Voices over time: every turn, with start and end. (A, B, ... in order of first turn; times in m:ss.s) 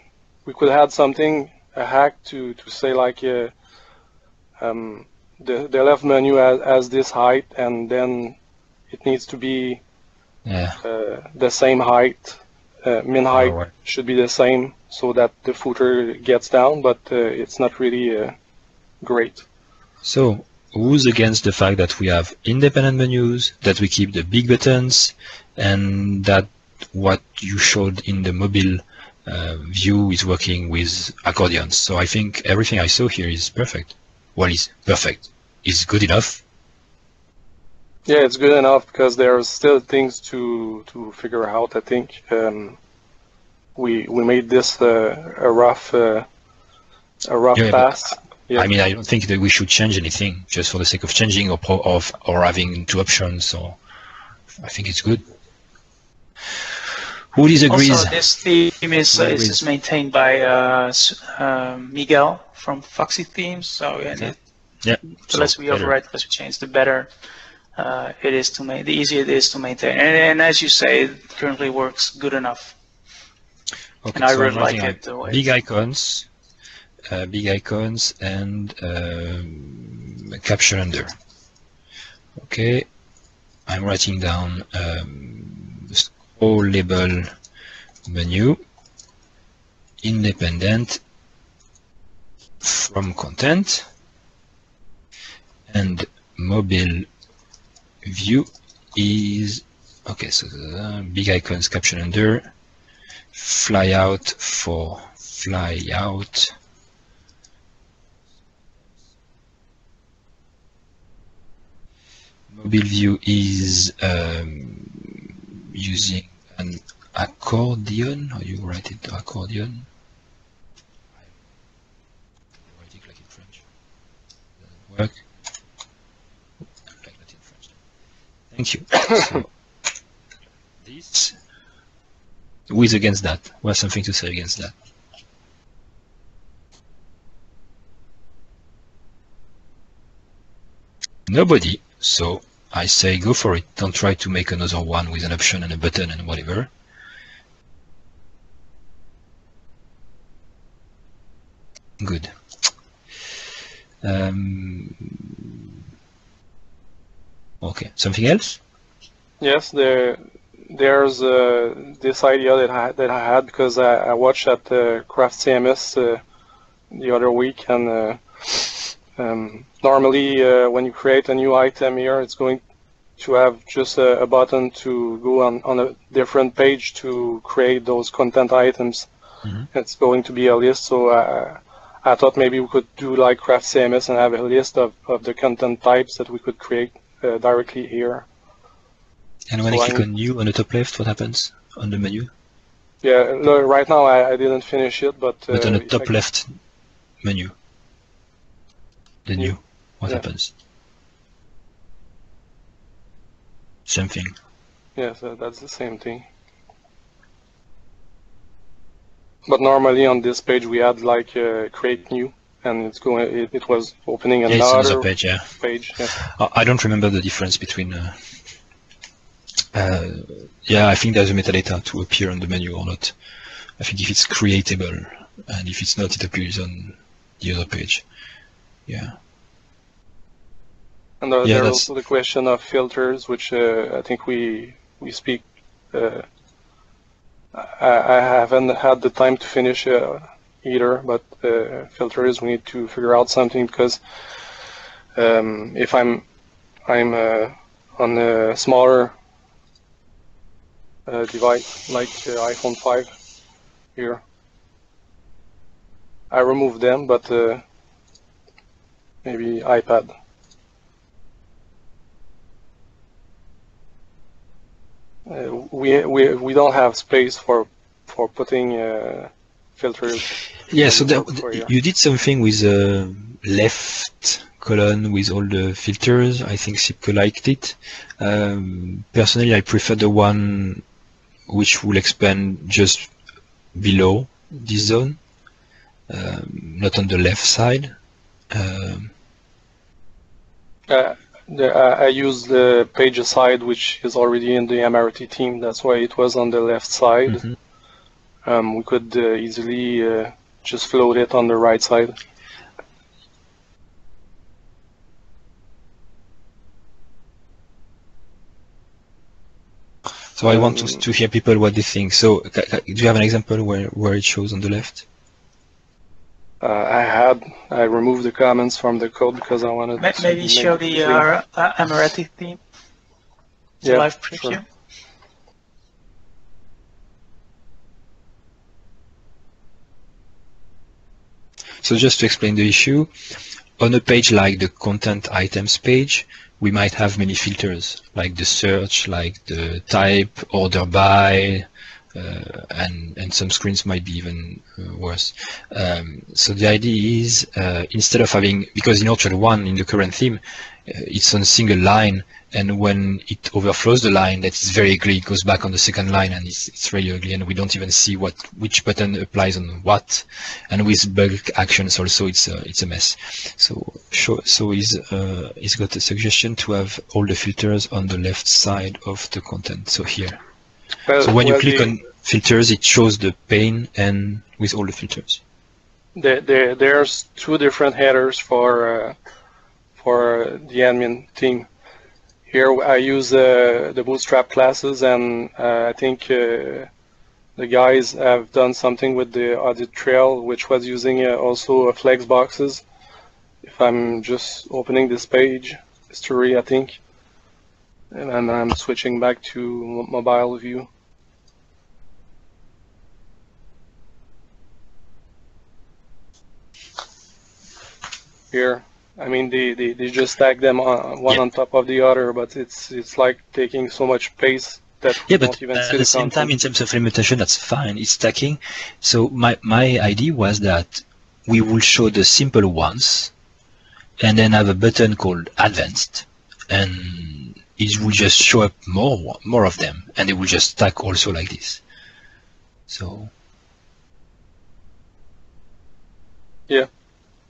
0:00.5-0:03.5 A
0:04.6-0:08.4 A
0:08.9-0:09.8 A
0:10.5-0:10.8 B
0:10.8-0:18.4 A
0:13.3-0:13.7 B
0:19.0-0:19.4 A
0:20.0-0:36.4 B
0:38.1-0:42.8 A
0:43.8-0:46.3 A
0:47.3-0:48.7 A
0:47.6-0:53.8 B
0:54.6-0:55.2 B
0:57.3-0:58.2 B
0:57.7-1:04.4 C
0:59.1-0:59.6 B
1:04.2-1:05.9 B
1:05.3-1:07.1 C
1:07.8-1:12.8 C
1:14.0-1:16.3 B
1:14.1-1:15.4 C
1:17.1-1:21.2 B
1:22.4-1:22.9 B
1:23.7-1:27.3 B
1:28.1-1:28.6 B
1:30.0-1:31.0 B
1:32.6-1:33.9 B
1:35.7-1:37.1 B
1:38.0-1:42.5 B
1:43.3-1:46.6 B
1:52.5-1:59.9 B
2:02.7-2:03.6 B
2:04.6-2:05.2 B
2:07.0-2:07.7 B
2:08.5-2:09.5 B
2:10.8-2:11.4 B
2:12.7-2:14.7 B
2:21.3-2:26.7 B
2:32.0-2:32.3 B
2:34.0-2:35.3 B
2:37.6-2:38.6 B
2:39.4-2:46.2 A
2:46.9-2:52.6 A
2:53.2-2:59.1 A
2:59.7-3:08.3 A
3:09.5-3:12.3 B
3:09.7-3:10.0 A
3:13.0-3:16.1 A
3:15.5-3:16.6 B
3:17.2-3:17.5 B
3:19.3-3:20.5 B
3:23.9-3:24.4 B
3:25.0-3:26.2 A
3:29.5-3:36.2 A
3:34.5-3:38.3 B
3:39.7-3:43.2 B
3:43.8-3:48.0 B
3:48.9-3:49.2 B
3:51.2-3:56.3 A
3:51.4-3:51.9 B
3:57.5-4:04.0 A
4:05.2-4:06.2 A
4:06.9-4:09.1 A
4:11.1-4:13.1 A
4:14.0-4:14.2 A
4:16.3-4:17.6 A
4:19.2-4:20.1 A
4:25.3-4:31.7 A
4:30.7-4:40.8 B
4:41.5-4:43.1 B
4:43.8-4:45.2 B
4:46.1-4:48.0 B
4:48.5-4:49.1 B
4:50.9-4:57.4 A
4:58.4-5:02.2 A
5:10.4-5:15.0 B
5:10.5-5:11.0 A
5:16.6-5:21.3 A
5:20.0-5:22.6 C
5:23.8-5:24.6 C
5:23.8-5:24.6 A
5:31.8-5:33.1 B
5:33.8-6:10.4 B
6:11.1-6:11.9 A
6:11.2-6:15.4 B
6:16.2-6:19.2 A
6:20.0-6:21.7 A
6:22.5-6:26.9 A
6:27.6-6:32.8 A
6:33.6-6:37.0 A
6:38.1-6:40.9 A
6:48.5-6:56.5 A
6:55.3-7:03.3 B
7:04.2-7:11.8 B
7:12.9-7:13.3 B